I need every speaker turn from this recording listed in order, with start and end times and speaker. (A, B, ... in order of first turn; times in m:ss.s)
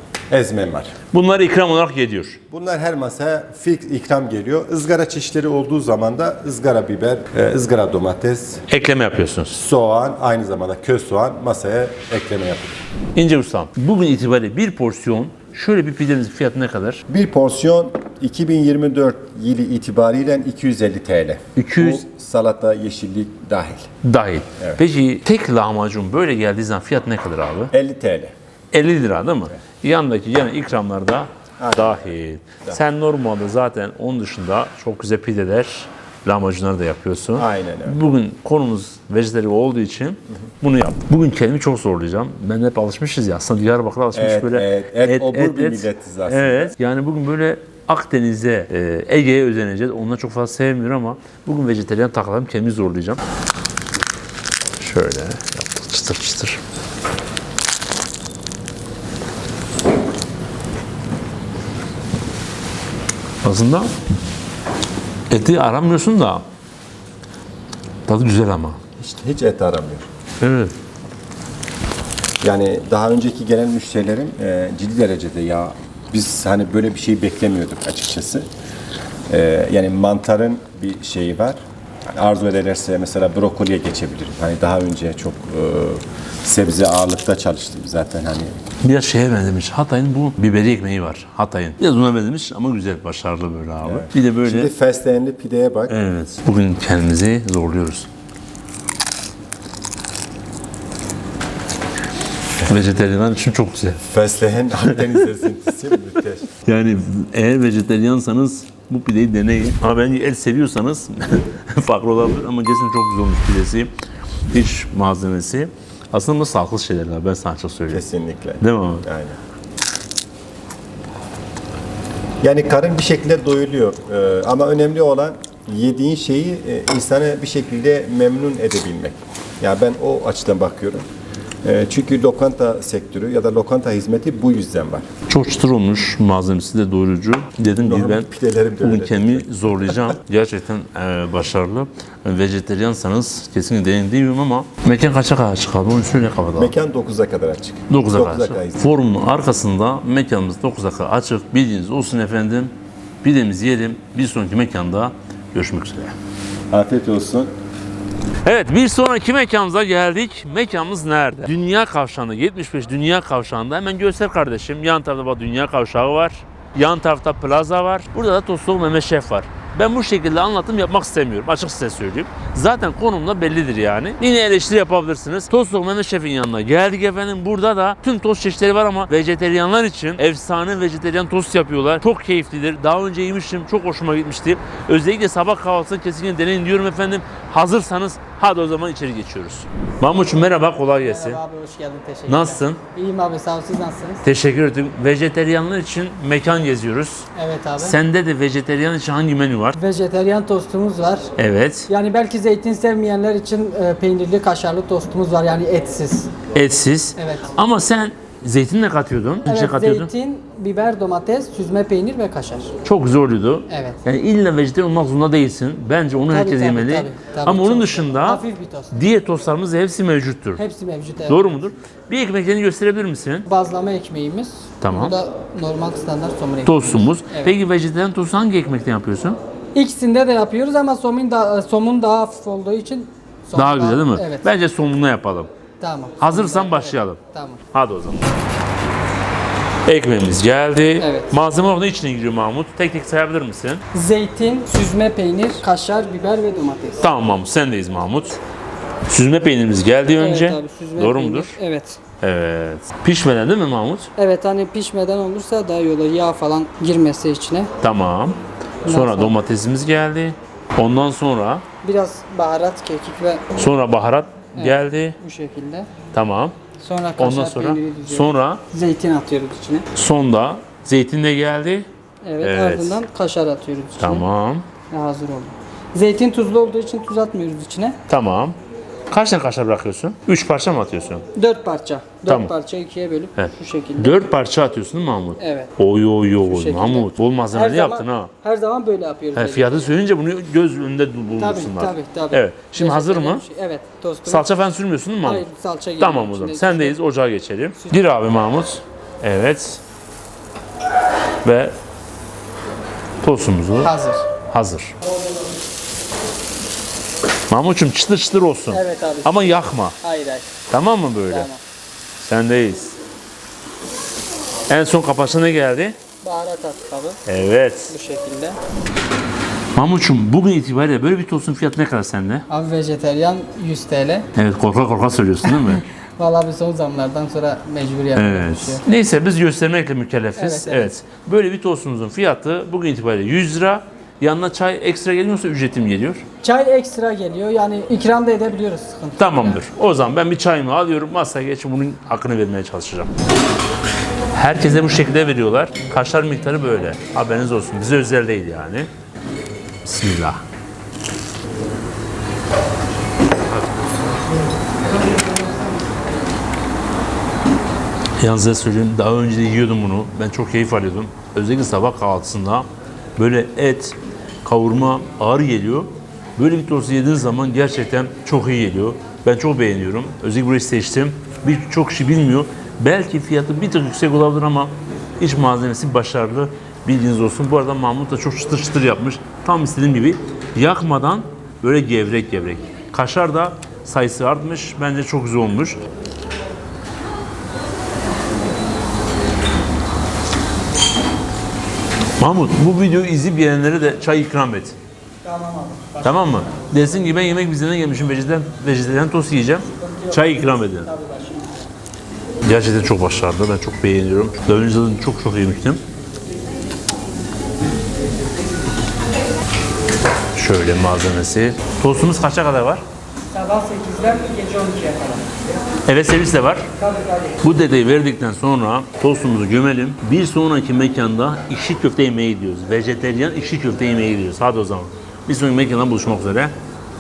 0:00.3-0:00.9 A
0:01.1-0:02.4 B
0:02.5-0:08.6 A
0:08.7-0:09.6 B
0:09.5-0:12.8 A
0:13.1-0:17.0 B
0:17.1-0:23.9 A
0:21.5-0:22.0 B
0:24.0-0:27.7 B
0:27.7-0:28.3 A
0:28.7-0:53.2 B
0:31.6-0:32.8 A
0:37.4-0:38.0 A
0:44.1-0:46.8 A
0:54.8-0:56.6 B
1:03.4-1:03.9 B
1:05.3-1:06.4 B
1:08.1-1:08.8 B
1:09.0-1:10.0 A
1:10.4-1:10.7 B
1:12.4-1:18.4 A
1:19.3-1:21.6 A
1:22.2-1:28.6 A
1:28.8-1:34.7 B
1:33.8-1:35.9 A
1:35.9-1:38.1 B
1:42.6-1:44.0 B
1:44.1-1:46.5 A
1:44.9-1:45.3 B
1:46.6-1:53.9 B
1:54.5-1:58.0 B
1:57.9-1:59.4 A
1:58.6-1:59.1 B
2:02.4-2:11.0 A
2:11.6-2:15.0 A
2:15.3-2:18.3 B
2:17.8-2:20.1 A
2:18.8-2:26.7 B
2:26.6-2:28.9 A
2:27.9-2:36.1 B
2:36.7-2:37.5 A
2:38.4-3:11.4 B
3:11.0-3:14.2 C
3:12.3-3:12.8 B
3:14.2-3:17.3 B
3:17.3-3:18.0 C
3:17.8-3:19.8 B
3:19.8-3:21.3 C
3:21.4-3:21.9 B
3:21.9-3:26.3 C
3:26.5-3:30.1 B
3:27.2-3:27.5 C
3:29.4-3:32.7 C
3:32.8-3:40.6 B
3:33.7-3:34.0 C
3:36.3-3:38.9 C
3:40.6-3:41.6 C
3:41.3-3:43.4 B
3:43.4-3:47.5 C
3:44.8-3:45.2 B
3:46.6-3:49.4 B
3:49.7-3:54.5 C
3:53.5-3:55.5 B
3:55.8-3:57.6 C
3:56.2-3:57.2 B
3:57.7-3:58.3 B
3:59.8-4:03.8 B
4:01.0-4:01.3 C
4:03.9-4:07.0 C
4:07.0-4:08.4 B
4:09.1-4:11.6 B
4:10.2-4:12.0 C
4:12.2-4:14.1 B
4:14.2-4:17.7 C
4:17.8-4:21.6 B
4:18.8-4:19.3 C
4:21.8-4:23.4 C
4:23.6-4:25.2 B
4:24.5-4:25.9 C
4:26.1-4:26.6 B
4:26.8-4:29.8 C
4:27.2-4:28.6 B
4:29.9-4:31.9 B
4:32.2-4:34.2 C
4:32.4-4:33.0 B
4:34.0-4:34.6 B
4:34.9-4:38.0 C
4:38.1-4:38.6 B
4:39.1-4:41.2 B
4:41.3-4:44.2 C
4:42.2-4:42.5 B
4:43.4-4:48.3 B
4:45.4-4:45.7 C
4:46.4-4:49.9 C
4:49.3-4:53.4 B
4:51.4-4:54.5 C
4:54.2-4:55.4 B
4:55.2-4:57.0 C
4:56.0-4:59.8 B
5:01.4-5:01.7 B
5:03.2-5:03.9 B
5:03.8-5:04.2 C
5:04.5-5:05.0 B
5:07.5-5:10.0 B
5:08.7-5:10.5 C
5:10.7-5:11.5 B
5:11.3-5:11.6 C
5:12.2-5:13.0 B
5:14.7-5:16.0 B
5:16.2-5:17.2 C
5:17.3-5:17.9 B
5:17.9-5:18.6 C
5:19.7-5:22.4 B
5:22.5-5:24.2 C
5:24.3-5:25.8 B
5:25.7-5:28.8 C
5:28.1-5:36.2 B
5:30.4-5:30.9 C
5:36.4-5:39.6 C
5:39.2-5:43.1 B
5:44.3-5:48.9 B
5:49.8-5:50.4 B
5:53.5-5:54.1 B
5:58.2-6:25.8 B
6:32.2-6:34.8 B
6:35.2-6:36.5 C
6:36.0-6:40.9 B
6:39.8-6:41.5 C
6:42.4-6:45.8 B
6:50.3-6:52.8 B
6:53.3-6:55.3 C
6:55.8-6:56.7 B
6:56.8-6:57.4 C
6:57.4-7:06.5 B